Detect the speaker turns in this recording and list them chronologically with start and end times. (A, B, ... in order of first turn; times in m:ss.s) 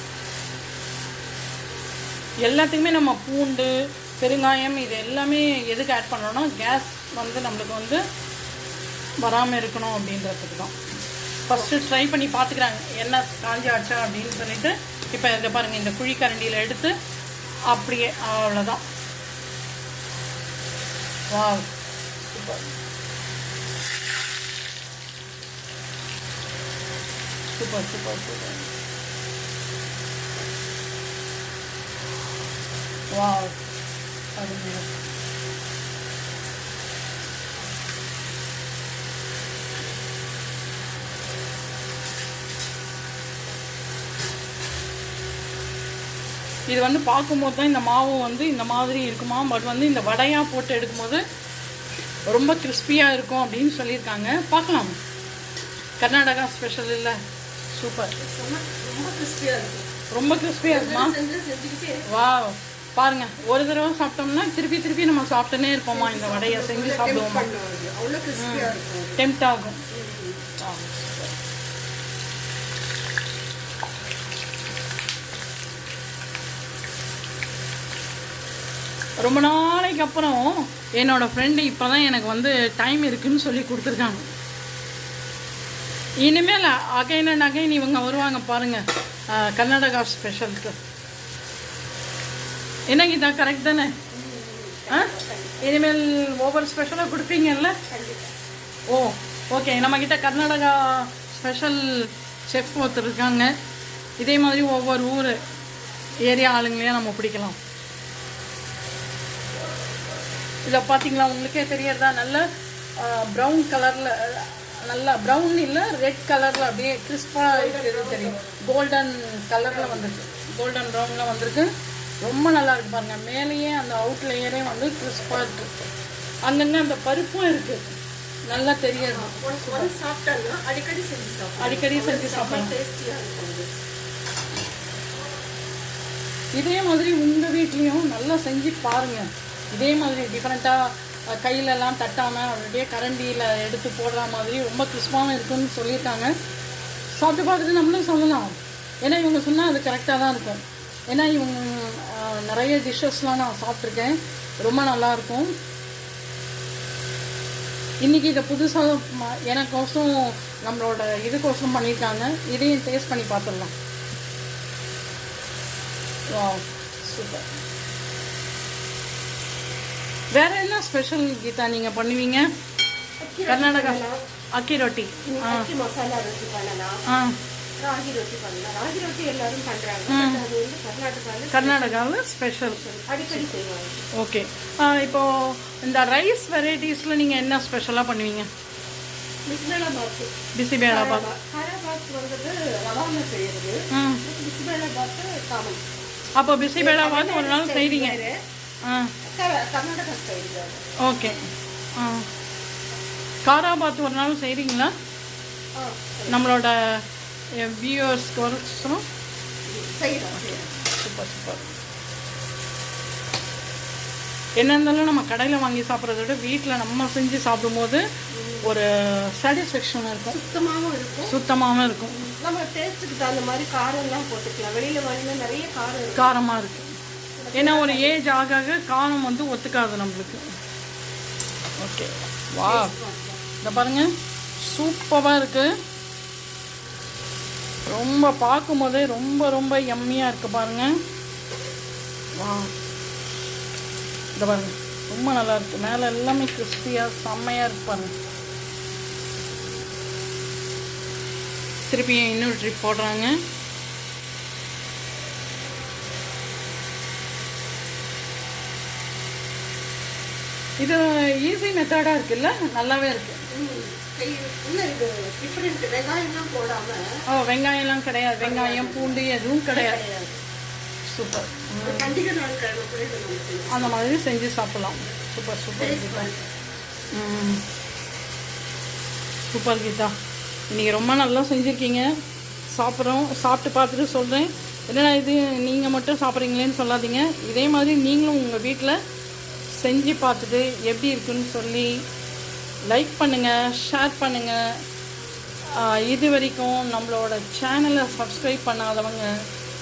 0:02.4-0:08.0 A
0:09.2-0:10.7 A
0:11.5-0:16.9 A
0:17.7-0:18.8 A
0:21.3-0:21.7 A
0:22.3-0:22.6 A
0:27.5-0:28.7 A
0:33.1-0:33.6 A
0:34.4-0:34.9 A
0:46.7-0:51.2 A
0:52.3-0:54.9 A
0:56.0-0:57.2 A
0:57.7-0:58.1 A
0:58.2-0:59.9 B
1:00.1-1:01.1 A
1:00.6-1:02.1 B
1:02.1-1:07.5 A
1:05.9-1:09.2 B
1:08.4-1:09.8 A
1:09.9-1:10.4 B
1:10.6-1:11.4 A
1:19.2-1:24.2 A
1:26.2-1:28.8 A
1:29.3-1:30.8 A
1:32.9-1:33.9 A
1:34.1-1:35.7 B
1:35.6-1:37.8 A
1:37.9-1:38.3 B
1:38.9-1:43.5 A
1:44.2-1:45.4 A
1:46.2-1:47.6 A
1:50.7-1:52.4 A
1:53.0-2:01.7 A
1:57.4-1:58.6 B
1:59.7-2:00.2 B
2:02.2-2:05.7 A
2:06.4-2:07.9 A
2:08.5-2:09.9 A
2:09.0-2:13.7 B
2:11.6-2:12.7 A
2:16.6-2:26.3 A
2:27.2-2:35.5 A
2:38.0-2:43.7 A
2:46.3-2:47.5 A
2:50.3-2:52.4 A
2:53.2-2:54.2 B
2:53.5-2:54.0 A
2:54.6-2:55.7 A
2:55.3-2:57.0 B
2:57.1-2:57.4 A
2:57.8-3:02.0 B
3:00.1-3:00.4 A
3:01.5-3:03.5 A
3:02.7-3:04.1 B
3:04.2-3:08.5 A
3:09.5-3:10.3 B
3:10.6-3:11.2 A
3:10.9-3:15.8 B
3:13.9-3:14.2 A
3:16.4-3:18.2 A
3:16.8-3:18.4 B
3:18.8-3:19.1 A
3:19.2-3:20.8 B
3:21.0-3:21.4 A
3:22.0-3:22.2 A
3:23.4-3:24.9 A
3:25.8-3:26.5 B
3:26.3-3:27.0 A
3:27.6-3:29.0 A
3:29.7-3:30.7 B
3:30.4-3:31.7 A
3:34.6-3:38.0 A
3:38.3-3:38.7 B
3:38.6-3:40.4 A
3:40.3-3:41.4 B
3:41.3-3:42.2 A
3:42.1-3:46.3 B
3:46.2-3:46.9 A
3:47.4-3:48.2 B
3:47.6-3:50.4 A
3:51.8-3:52.9 A
3:52.6-3:53.4 B
3:53.6-3:55.7 A
3:57.9-4:00.9 A
4:02.4-4:02.7 A
4:04.4-4:08.1 A
4:11.9-4:13.4 A
4:20.8-4:23.4 A
4:23.5-4:27.1 B
4:27.3-4:30.0 A
4:28.4-4:30.4 B
4:31.1-4:32.1 A
4:31.8-4:34.0 B
4:33.7-4:36.3 A
4:35.8-4:36.5 B
4:37.1-4:37.6 A
4:39.5-4:40.1 A
4:40.7-4:42.1 A
4:42.7-4:49.0 A
4:49.7-4:51.9 A
4:52.9-4:54.6 A
4:55.7-4:59.3 A